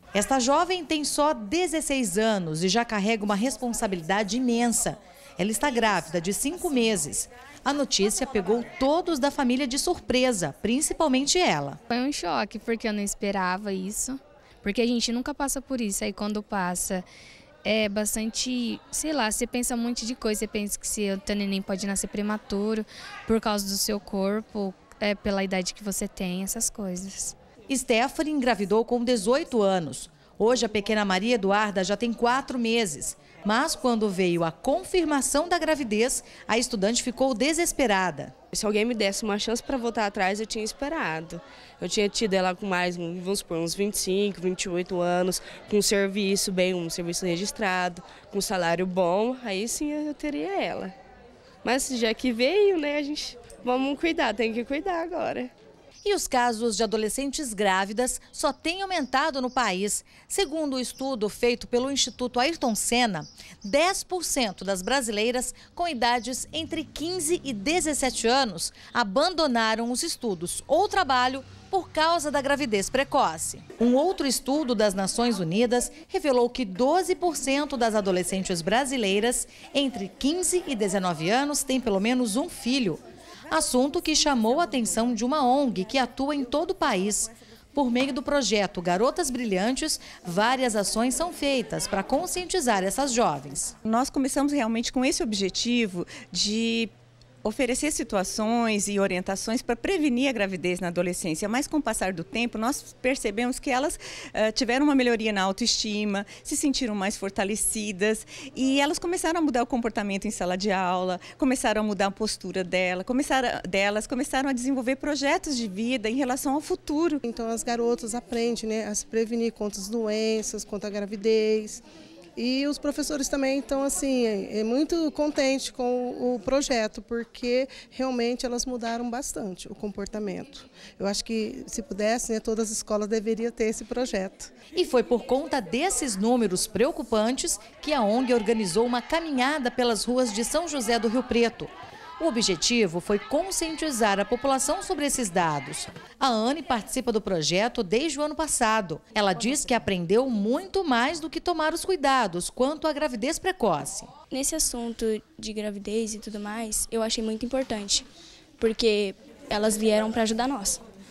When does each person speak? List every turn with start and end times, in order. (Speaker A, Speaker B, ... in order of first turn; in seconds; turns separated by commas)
Speaker A: 0.1-11.8, Speaker B: 11.9-17.1, Speaker B: 17.6-27.4, Speaker A: 27.7-38.3, Speaker C: 38.5-50.9, Speaker C: 51.6-55.5, Speaker A: 56.0-93.7, Speaker D: 93.8-96.9, Speaker D: 97.4-117.2, Speaker E: 117.2-121.8, Speaker E: 122.4-134.5, Speaker A: 134.7-154.1, Speaker F: 154.3-160.9